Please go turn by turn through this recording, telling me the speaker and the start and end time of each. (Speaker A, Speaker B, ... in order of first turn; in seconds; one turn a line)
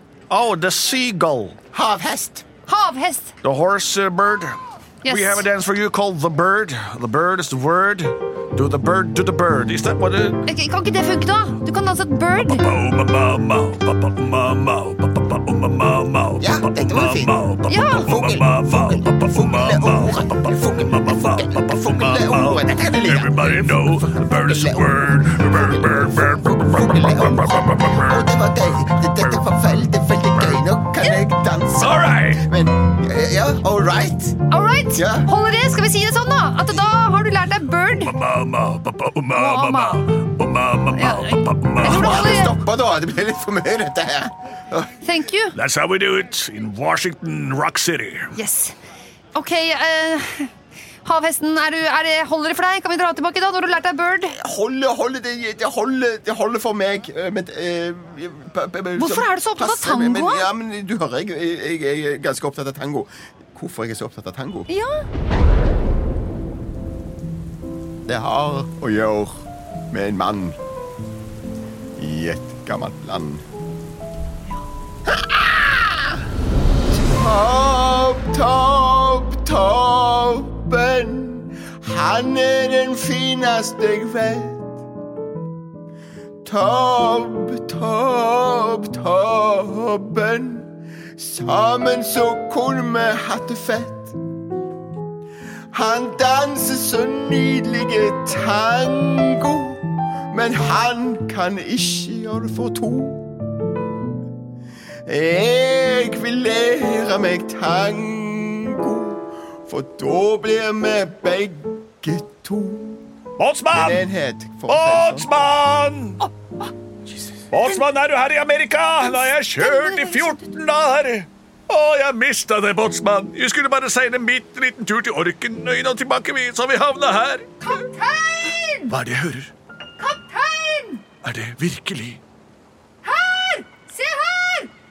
Speaker A: 0.3-1.6
Speaker B: 1.7-2.5
Speaker C: 2.7-3.3
Speaker A: 3.4-10.5
Speaker C: 5.0-5.5
Speaker C: 10.5-12.7
Speaker A: 12.5-28.3
Speaker B: 16.4-17.4
Speaker C: 17.7-18.1
Speaker B: 17.9-34.4
Speaker A: 31.8-32.5
Speaker C: 34.5-38.1
Speaker B: 34.9-35.3
Speaker A: 38.0-42.3
Speaker C: 39.4-40.1
Speaker C: 40.9-42.6
Speaker B: 41.8-44.9
Speaker C: 45.0-45.5
Speaker A: 45.5-48.4
Speaker C: 48.4-48.8
Speaker C: 49.4-50.5
Speaker C: 51.0-54.4
Speaker B: 54.4-64.7
Speaker C: 59.0-60.5
Speaker C: 64.7-65.1
Speaker B: 68.1-70.6
Speaker B: 72.0-73.5
Speaker B: 75.1-76.2
Speaker B: 76.9-84.8
Speaker B: 86.5-94.2
Speaker B: 95.7-103.2
Speaker B: 105.0-113.0
Speaker A: 113.4-114.1
Speaker B: 113.7-115.4
Speaker A: 114.7-116.2
Speaker C: 116.2-116.7
Speaker A: 117.5-127.5
Speaker C: 119.0-120.4
Speaker C: 127.6-128.9
Speaker A: 128.9-129.5
Speaker C: 130.0-131.0
Speaker A: 131.2-132.2
Speaker C: 133.0-134.7